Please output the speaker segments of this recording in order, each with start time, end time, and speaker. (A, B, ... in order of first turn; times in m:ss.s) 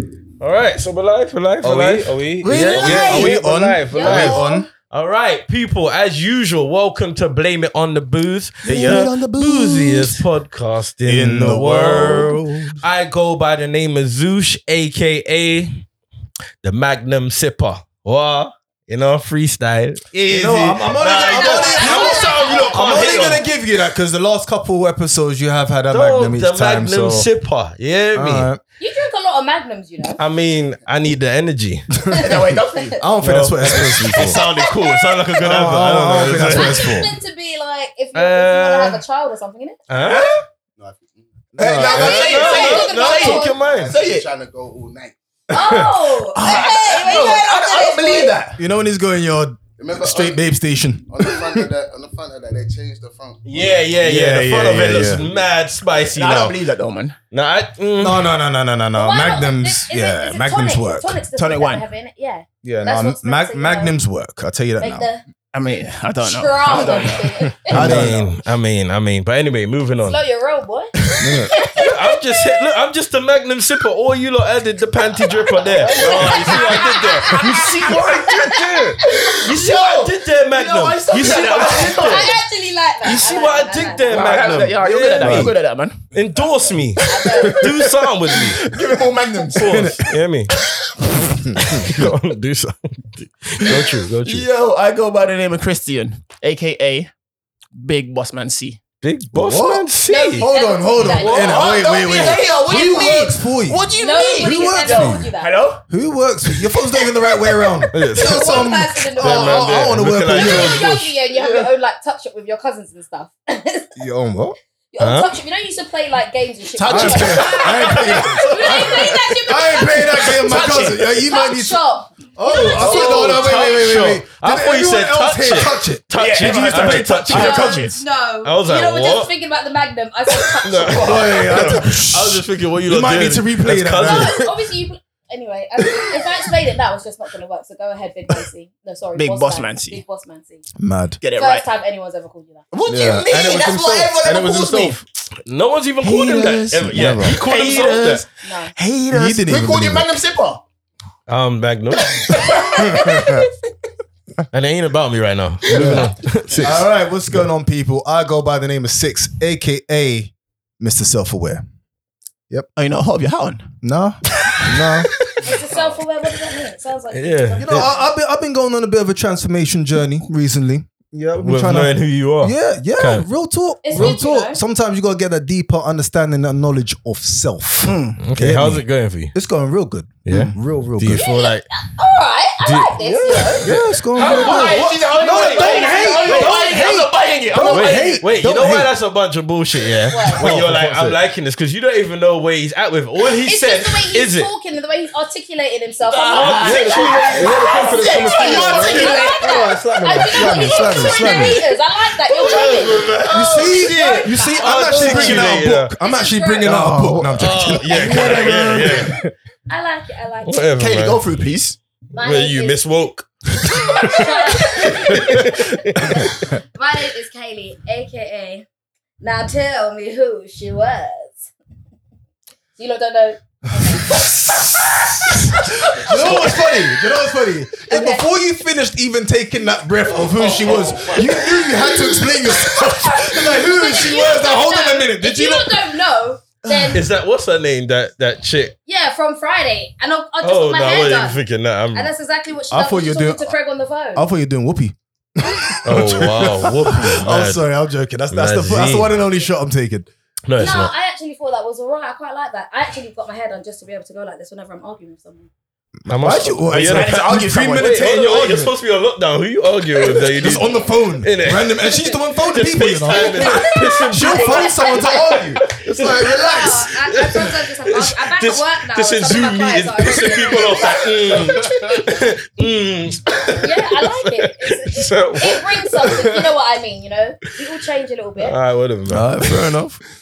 0:00.4-0:15.8 A
0:01.6-0:04.7 B
0:02.4-0:03.4 C
0:03.9-0:04.7 D
0:08.6-0:10.2 C
0:08.7-0:09.2 B
0:11.0-0:12.8 B
0:16.6-0:23.4 A
0:20.1-0:27.3 B
0:21.0-0:23.4 D
0:25.9-0:28.5 A
0:28.1-0:28.6 B
0:28.8-0:30.2 D
0:30.2-0:31.9 A
0:32.1-0:33.0 D
0:32.2-0:33.0 C
0:33.0-0:34.4 B
0:33.2-0:37.1 A
0:34.2-0:35.0 D
0:35.4-0:37.1 B
0:36.4-0:39.8 D
0:38.1-0:39.0 A
0:39.9-0:40.3 A
0:40.0-0:40.4 C
0:40.8-0:42.8 E
0:41.6-0:42.3 B
0:41.6-0:44.3 C
0:41.8-0:43.9 A
0:41.9-0:43.6 D
0:43.5-0:45.2 E
0:45.5-0:48.4 D
0:45.6-0:45.9 B
0:46.3-0:48.6 C
0:48.6-0:51.7 B
0:49.8-0:50.4 E
0:51.1-0:54.0 E
0:53.4-0:56.6 A
0:54.0-0:55.2 B
0:54.8-0:55.4 E
0:56.1-0:57.2 C
0:57.3-0:58.3 A
0:58.0-1:01.2 B
0:58.9-1:03.9 D
1:01.4-1:01.8 C
1:02.6-1:05.1 B
1:04.8-1:05.2 D
1:05.5-1:07.6 C
1:06.2-1:07.8 D
1:07.6-1:08.3 B
1:07.7-1:10.2 A
1:10.0-1:10.9 D
1:11.0-1:11.4 C
1:11.2-1:11.5 B
1:11.5-1:12.5 D
1:11.7-1:22.3 A
1:15.2-1:19.4 D
1:15.8-1:22.4 C
1:18.3-1:18.9 B
1:21.7-1:24.4 D
1:23.0-1:23.3 C
1:23.1-1:25.5 A
1:23.8-1:26.0 C
1:24.3-1:25.5 B
1:26.1-1:28.7 A
1:27.0-1:30.0 C
1:27.0-1:27.6 D
1:29.5-1:30.5 A
1:29.6-1:30.1 B
1:31.2-1:31.9 B
1:31.5-1:34.5 A
1:33.6-1:37.1 C
1:37.7-1:38.8 C
1:39.0-1:41.8 A
1:39.3-1:39.9 B
1:40.0-1:43.3 D
1:40.4-1:43.8 B
1:41.2-1:45.8 C
1:43.9-1:45.6 D
1:44.4-1:45.3 B
1:45.9-1:50.9 B
1:47.9-1:51.1 A
1:48.2-1:54.0 D
1:51.4-1:51.7 C
1:54.0-1:54.6 B
1:54.9-2:04.0 D
1:55.0-1:55.3 A
1:56.7-1:58.1 C
1:56.8-2:01.8 B
1:57.8-1:58.9 A
2:00.2-2:01.2 C
2:02.4-2:07.6 B
2:02.8-2:07.7 A
2:02.8-2:03.2 C
2:06.1-2:08.0 C
2:07.3-2:11.5 D
2:08.4-2:09.3 A
2:10.6-2:14.4 A
2:10.9-2:14.5 B
2:11.1-2:11.8 C
2:14.0-2:20.6 D
2:15.8-2:16.4 B
2:19.2-2:20.0 C
2:20.8-2:21.2 B
2:21.2-2:21.7 C
2:21.3-2:22.7 D
2:22.7-2:25.0 C
2:22.9-2:25.0 B
2:24.2-2:28.2 A
2:26.0-2:30.6 C
2:26.9-2:27.4 B
2:28.4-2:28.7 D
2:29.1-2:30.1 B
2:31.3-2:32.6 A
2:32.0-2:33.4 C
2:32.3-2:33.1 D
2:32.8-2:33.5 B
2:34.5-2:36.9 A
2:35.7-2:41.6 B
2:36.5-2:36.7 E
2:42.8-2:43.7 C
2:43.8-2:45.1 B
2:44.3-2:45.5 C
2:45.4-2:48.1 D
2:45.7-2:46.0 E
2:47.1-2:47.9 A
2:47.6-3:01.2 B
2:51.4-2:53.3 A
2:53.8-2:54.6 D
2:57.8-2:58.2 C
2:58.2-2:59.3 A
3:00.2-3:01.6 A
3:00.3-3:00.6 C
3:01.1-3:06.9 D
3:02.6-3:06.7 A
3:03.6-3:08.9 B
3:04.1-3:08.2 C
3:07.7-3:14.5 A
3:10.1-3:10.5 D
3:10.3-3:11.2 B
3:13.4-3:23.1 D
3:16.0-3:19.6 C
3:16.3-3:21.5 A
3:16.6-3:19.1 B
3:20.3-3:21.6 B
3:22.2-3:23.9 A
3:23.2-3:23.9 E
3:23.3-3:29.3 B
3:23.7-3:26.9 D
3:23.7-3:24.2 C
3:24.5-3:25.9 A
3:25.0-3:25.3 C
3:26.6-3:28.7 C
3:27.3-3:29.2 A
3:29.7-3:30.8 D
3:30.4-3:31.3 A
3:30.8-3:31.8 C
3:32.1-3:32.8 D
3:32.1-3:33.3 A
3:33.7-3:34.2 C
3:33.8-3:34.2 A
3:34.1-3:38.6 D
3:34.8-3:36.3 A
3:39.2-3:41.5 D
3:42.8-3:44.2 D
3:44.3-3:45.9 C
3:45.9-3:55.8 B
3:46.1-3:46.5 E
3:46.1-3:46.6 D
3:47.9-3:48.3 D
3:50.6-3:51.1 E
3:50.6-3:51.1 A
3:53.2-3:57.0 D
3:56.6-3:57.0 B
3:56.9-3:58.7 A
3:58.8-4:01.4 D
4:00.4-4:02.1 A
4:01.9-4:04.2 D
4:02.7-4:03.5 B
4:04.1-4:10.9 B
4:05.8-4:07.6 A
4:08.3-4:09.1 A
4:10.4-4:10.9 A
4:10.6-4:15.5 D
4:16.0-4:21.9 A
4:16.1-4:18.7 B
4:16.7-4:18.1 C
4:20.2-4:26.9 B
4:21.8-4:31.4 D
4:22.5-4:36.5 A
4:31.2-4:32.1 E
4:33.5-4:38.6 D
4:38.4-4:39.7 A
4:39.0-4:40.0 B